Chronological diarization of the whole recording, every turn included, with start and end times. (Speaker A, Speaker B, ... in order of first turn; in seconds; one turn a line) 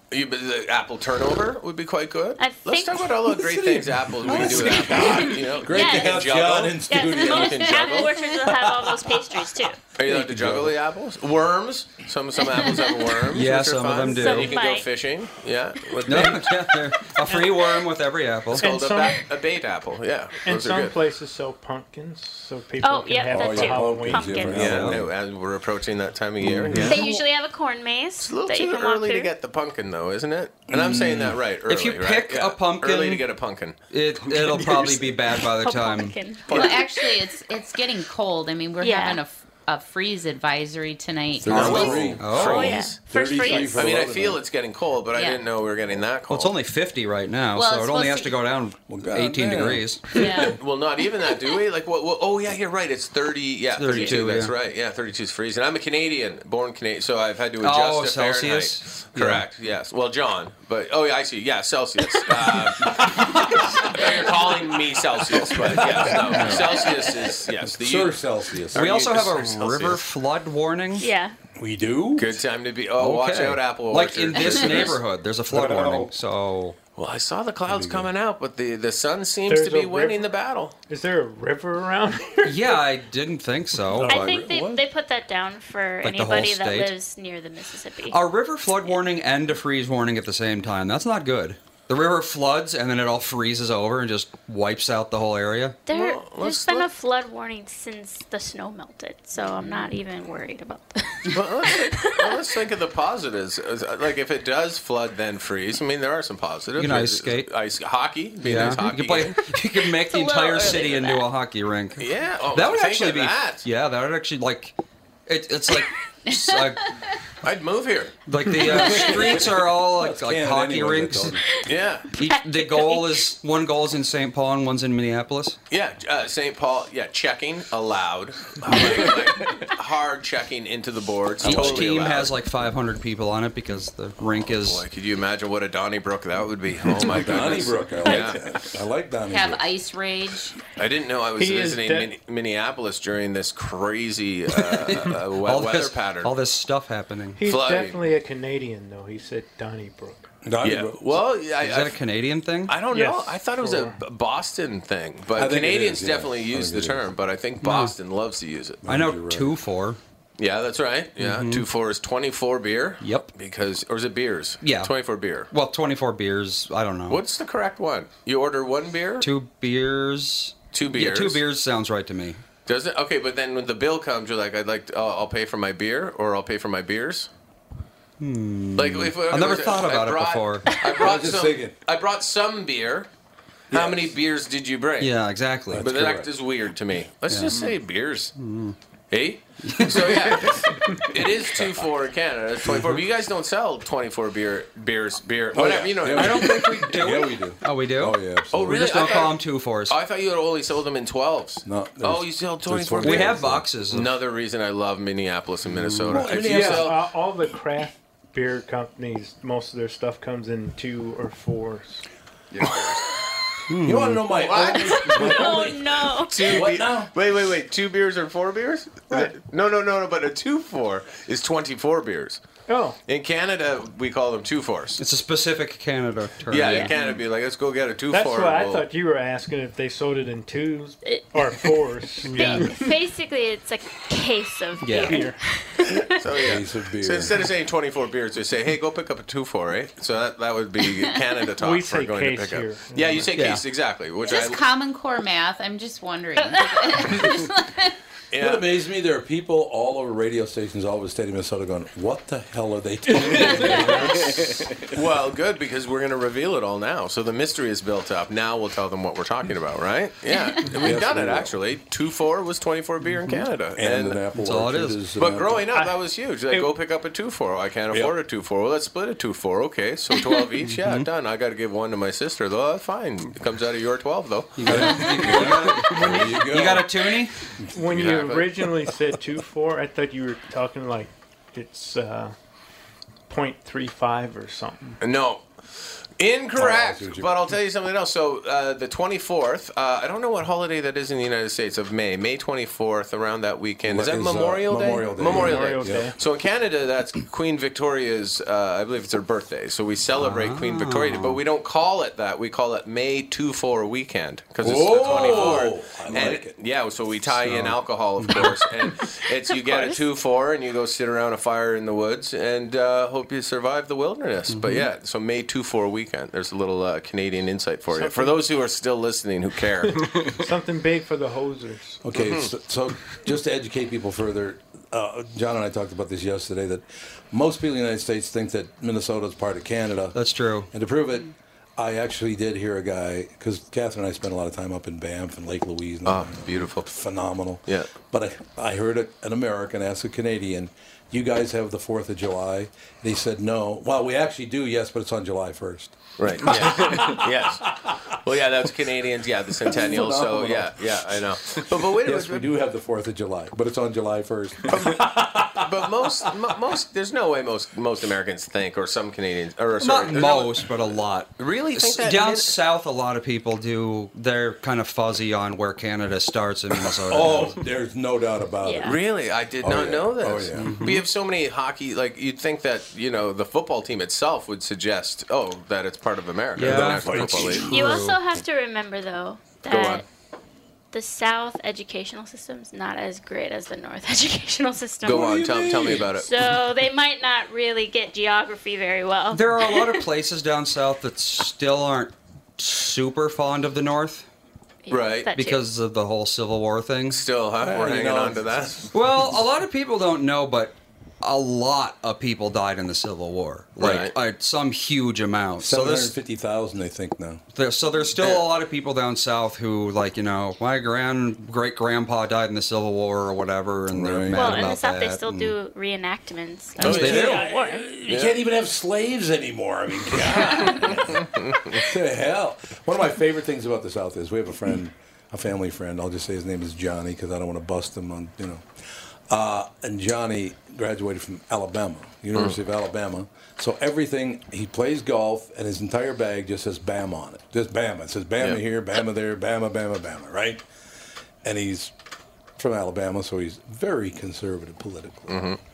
Speaker A: 0.1-8.1
Speaker B: 2.4-3.1
Speaker C: 3.3-7.9
Speaker B: 5.2-6.2
Speaker B: 6.9-9.8
Speaker C: 8.4-8.9
Speaker A: 9.9-16.5
Speaker C: 10.1-10.8
Speaker D: 13.3-14.5
Speaker B: 14.0-14.9
Speaker D: 16.1-18.7
Speaker A: 18.6-20.9
Speaker E: 18.6-19.2
Speaker E: 20.4-24.5
Speaker B: 22.8-24.9
Speaker C: 23.3-25.1
Speaker A: 24.5-27.1
Speaker D: 24.6-25.0
Speaker C: 26.4-27.0
Speaker B: 26.7-29.3
Speaker A: 28.2-33.8
Speaker C: 30.7-31.4
Speaker D: 31.7-33.2
Speaker D: 33.9-36.2
Speaker B: 35.5-37.2
Speaker F: 36.5-42.1
Speaker B: 38.8-39.2
Speaker C: 41.4-44.4
Speaker A: 41.5-46.5
Speaker D: 41.6-42.8
Speaker B: 42.0-44.0
Speaker F: 45.1-45.4
Speaker D: 46.3-50.0
Speaker F: 47.5-48.4
Speaker C: 48.9-50.4
Speaker B: 50.1-50.5
Speaker A: 50.2-63.2
Speaker D: 53.8-54.5
Speaker B: 53.9-54.2
Speaker D: 57.6-59.4
Speaker A: 63.9-70.0
Speaker C: 65.6-66.8
Speaker D: 66.0-66.8
Speaker C: 67.7-69.2
Speaker D: 68.7-71.1
Speaker B: 71.0-71.3
Speaker C: 71.6-72.3
Speaker A: 72.2-75.0
Speaker D: 73.0-76.8
Speaker F: 74.5-74.9
Speaker C: 75.5-76.1
Speaker A: 77.0-80.8
Speaker C: 77.7-78.1
Speaker E: 79.5-80.2
Speaker E: 80.9-82.8
Speaker D: 82.4-84.2
Speaker B: 83.9-88.2
Speaker C: 84.0-84.8
Speaker D: 86.0-86.9
Speaker D: 88.1-95.8
Speaker B: 95.9-102.4
Speaker A: 95.9-96.9
Speaker A: 101.3-109.4
Speaker D: 106.8-107.5
Speaker D: 108.4-114.7
Speaker B: 110.0-111.2
Speaker A: 112.0-113.6
Speaker D: 115.3-116.9
Speaker A: 117.4-118.1
Speaker D: 118.3-121.4
Speaker C: 118.6-121.4
Speaker A: 121.7-122.1
Speaker D: 122.1-125.6
Speaker B: 122.2-123.2
Speaker A: 125.7-132.3
Speaker C: 128.7-129.1
Speaker D: 131.4-134.8
Speaker C: 131.4-131.8
Speaker A: 134.4-138.4
Speaker C: 137.0-139.6
Speaker B: 138.0-138.3
Speaker F: 139.3-140.6
Speaker A: 140.8-146.3
Speaker E: 141.4-142.1
Speaker D: 144.7-147.4
Speaker E: 147.4-150.3
Speaker A: 147.4-148.0
Speaker C: 150.4-151.2
Speaker A: 150.6-151.9
Speaker D: 151.6-152.8
Speaker A: 152.7-158.8
Speaker E: 152.9-154.0
Speaker C: 155.3-157.1
Speaker D: 157.6-157.9
Speaker C: 158.8-159.5
Speaker D: 158.9-160.0
Speaker A: 160.4-165.5
Speaker D: 161.2-161.7
Speaker D: 163.0-163.3
Speaker D: 164.6-164.9
Speaker D: 165.5-167.2
Speaker A: 167.1-169.3
Speaker D: 169.2-172.4
Speaker A: 170.7-171.4
Speaker A: 172.7-177.3
Speaker D: 178.2-180.8
Speaker A: 178.8-183.1
Speaker C: 181.0-181.7
Speaker C: 183.7-184.1
Speaker A: 183.7-185.1
Speaker D: 185.0-185.9
Speaker C: 185.7-186.3
Speaker A: 185.8-188.3
Speaker D: 187.3-187.5
Speaker D: 188.4-188.8
Speaker A: 189.1-196.7
Speaker D: 189.6-190.2
Speaker C: 192.7-193.0
Speaker C: 195.5-199.2
Speaker D: 196.1-199.9
Speaker A: 198.5-207.0
Speaker C: 201.6-203.7
Speaker D: 203.0-204.1
Speaker C: 206.0-207.0
Speaker E: 206.4-212.0
Speaker C: 212.6-212.8
Speaker A: 212.6-213.0
Speaker D: 213.7-214.2
Speaker C: 213.8-217.1
Speaker A: 214.3-215.5
Speaker B: 214.6-216.7
Speaker A: 216.3-222.4
Speaker E: 222.7-223.0
Speaker A: 223.1-225.0
Speaker D: 225.0-226.9
Speaker A: 226.5-228.8
Speaker E: 228.1-232.8
Speaker B: 231.0-231.4
Speaker D: 232.3-232.6
Speaker B: 232.3-236.0
Speaker D: 234.8-235.2
Speaker E: 235.1-235.4
Speaker A: 236.2-244.6
Speaker C: 236.4-237.4
Speaker E: 241.6-243.3
Speaker D: 243.3-243.6
Speaker F: 244.2-247.9
Speaker B: 246.4-247.2
Speaker A: 248.3-248.7
Speaker C: 248.3-254.8
Speaker A: 254.8-264.2
Speaker C: 260.7-261.6
Speaker C: 263.7-265.7
Speaker D: 264.3-265.0
Speaker A: 265.2-274.9
Speaker E: 265.7-266.7
Speaker D: 270.7-271.1
Speaker D: 274.6-277.4
Speaker C: 274.7-276.9
Speaker E: 277.7-282.3
Speaker A: 277.8-278.5
Speaker E: 283.3-284.9
Speaker A: 285.0-320.0
Speaker C: 286.6-287.3
Speaker C: 293.9-296.1
Speaker E: 295.2-296.1
Speaker D: 300.1-301.4
Speaker C: 304.6-306.5
Speaker D: 307.3-308.5
Speaker B: 309.6-310.0
Speaker D: 314.5-314.9
Speaker E: 317.9-318.4
Speaker E: 319.9-322.0
Speaker C: 322.0-330.2
Speaker A: 322.1-322.5
Speaker D: 330.1-330.7
Speaker C: 330.7-347.5
Speaker A: 336.0-336.9
Speaker A: 346.2-352.5
Speaker C: 349.6-356.3
Speaker A: 354.7-360.8
Speaker D: 359.8-367.6
Speaker A: 361.4-362.6
Speaker C: 367.1-369.0
Speaker B: 368.6-368.9
Speaker A: 368.8-377.7
Speaker C: 369.6-370.7
Speaker D: 370.6-371.0
Speaker D: 376.6-378.2
Speaker C: 376.6-377.7
Speaker B: 377.6-380.0
Speaker A: 379.7-380.0
Speaker B: 380.9-390.0
Speaker A: 385.0-386.5
Speaker C: 385.0-386.1
Speaker D: 389.3-394.3
Speaker B: 394.9-395.6
Speaker A: 394.9-395.3
Speaker D: 395.3-397.2
Speaker A: 397.1-398.8
Speaker C: 397.6-398.9
Speaker D: 398.9-406.1
Speaker A: 403.8-404.1
Speaker C: 405.6-407.4
Speaker D: 407.5-415.5
Speaker A: 408.2-408.4
Speaker C: 413.9-414.6
Speaker B: 414.3-417.9
Speaker A: 416.8-417.4
Speaker C: 416.8-428.6
Speaker D: 416.8-417.4
Speaker A: 418.1-418.4
Speaker A: 421.2-421.7
Speaker C: 429.3-440.6
Speaker C: 441.4-441.9
Speaker C: 442.6-445.4
Speaker A: 445.3-445.6